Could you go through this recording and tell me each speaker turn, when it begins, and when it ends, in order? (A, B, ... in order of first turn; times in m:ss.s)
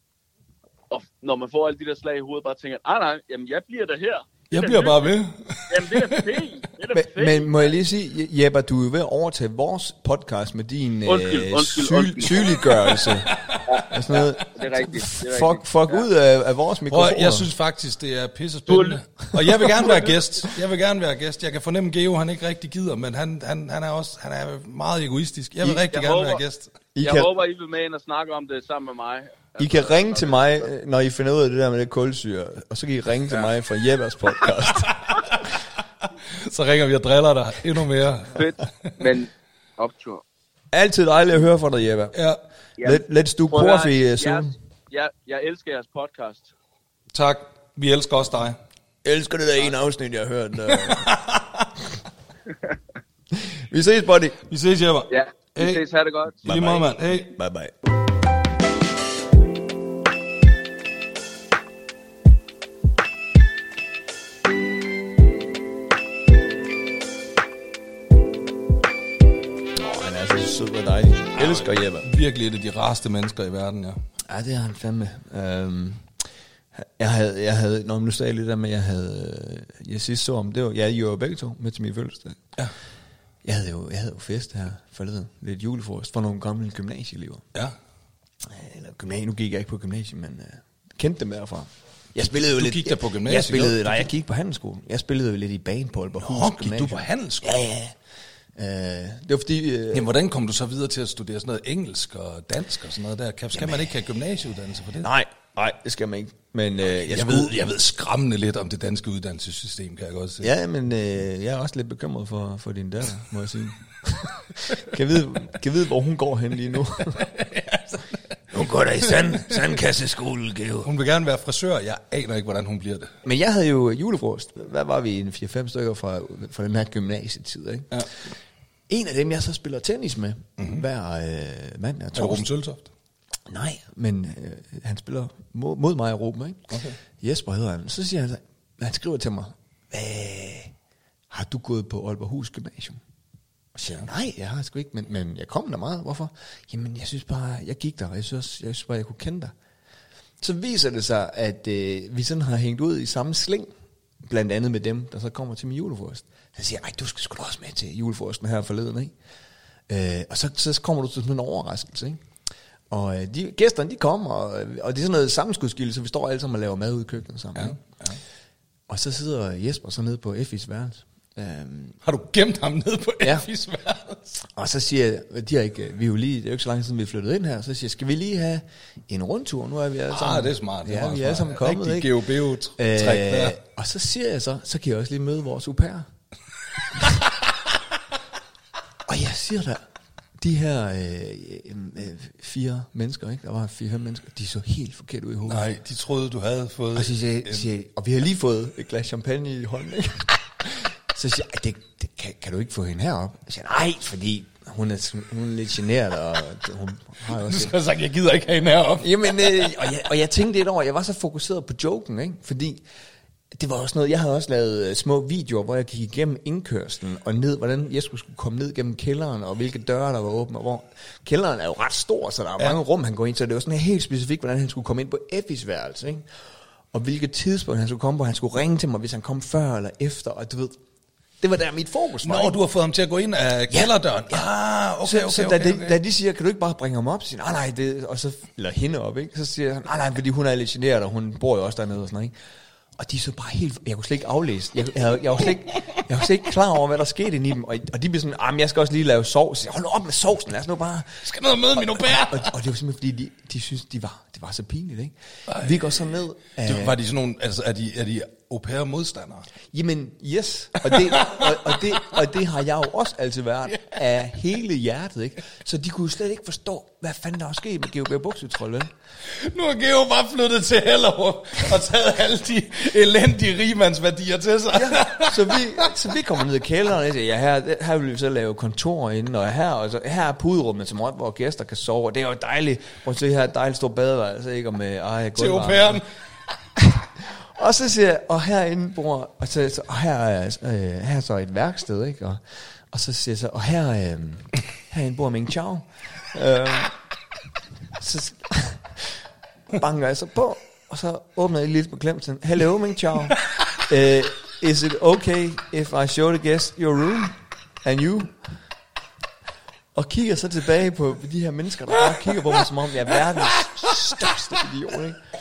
0:00.9-0:05.2 A
0:04.5-0:06.4 B
0:05.7-0:07.8 A
0:06.9-0:17.5 C
0:11.0-0:12.9 A
0:12.6-0:13.8 B
0:13.6-0:16.0 A
0:16.9-0:26.8 B
0:18.7-0:19.9 A
0:25.6-0:25.9 C
0:25.9-0:26.4 A
0:26.9-0:27.3 C
0:27.0-0:30.7 A
0:29.6-0:34.9 C
0:34.6-0:35.5 B
0:36.4-0:38.9 B
0:38.3-0:40.2 A
0:40.7-0:42.2 C
0:42.8-0:46.5 A
0:42.8-0:44.5 C
0:47.1-0:48.6 B
0:49.0-0:51.1 C
0:50.7-0:51.7 B
0:53.3-0:54.4 C
0:54.5-0:55.8 B
0:55.1-0:56.8 A
0:56.4-0:57.3 B
0:56.4-0:57.7 C
1:09.7-1:12.1 C
1:11.3-1:14.0 B
1:14.3-1:16.1 C
1:16.8-1:22.4 C
1:23.4-1:27.4 C
1:28.4-1:37.9 C
1:32.2-1:34.1 B
1:36.2-1:37.5 B
1:38.6-1:40.1 C
1:39.9-1:45.1 B
1:43.5-1:43.9 C
1:45.0-1:47.6 C
1:47.0-1:50.5 B
1:50.4-1:57.3 C
1:57.1-1:58.1 B
1:58.5-2:00.9 C
2:00.8-2:03.1 B
2:03.2-2:08.0 C
2:08.9-2:12.4 C
2:10.6-2:10.8 B
2:12.1-2:12.9 B
2:13.5-2:20.7 C
2:16.7-2:17.0 B
2:21.3-2:23.0 C
2:23.8-2:29.5 C
2:30.4-2:33.7 C
2:34.2-2:39.1 C
2:39.9-2:42.2 C
2:42.9-2:47.8 C
2:47.6-2:48.2 B
2:48.9-2:52.0 C
2:52.0-2:54.4 B
2:54.4-3:02.1 C
3:00.1-3:03.6 B
3:02.8-3:06.0 C
3:09.0-3:09.8 C
3:10.4-3:15.7 C
3:15.5-3:17.7 B
3:16.9-3:27.7 C
3:27.3-3:29.7 B
3:29.0-3:32.8 C
3:33.5-3:46.2 C
3:46.9-3:50.8 C
3:51.4-3:52.6 C
3:52.2-3:56.0 B
3:53.7-3:54.5 C
3:55.0-4:02.3 C
4:03.0-4:17.0 C
4:11.2-4:12.5 B
4:15.5-4:16.0 B
4:16.6-4:19.5 B
4:19.7-4:28.9 C
4:20.8-4:22.0 B
4:29.3-4:35.9 B
4:34.7-4:46.0 C
4:45.4-4:46.0 B
4:46.8-4:56.9 C
4:58.0-5:08.6 C
5:09.9-5:15.2 C
5:13.5-5:14.3 B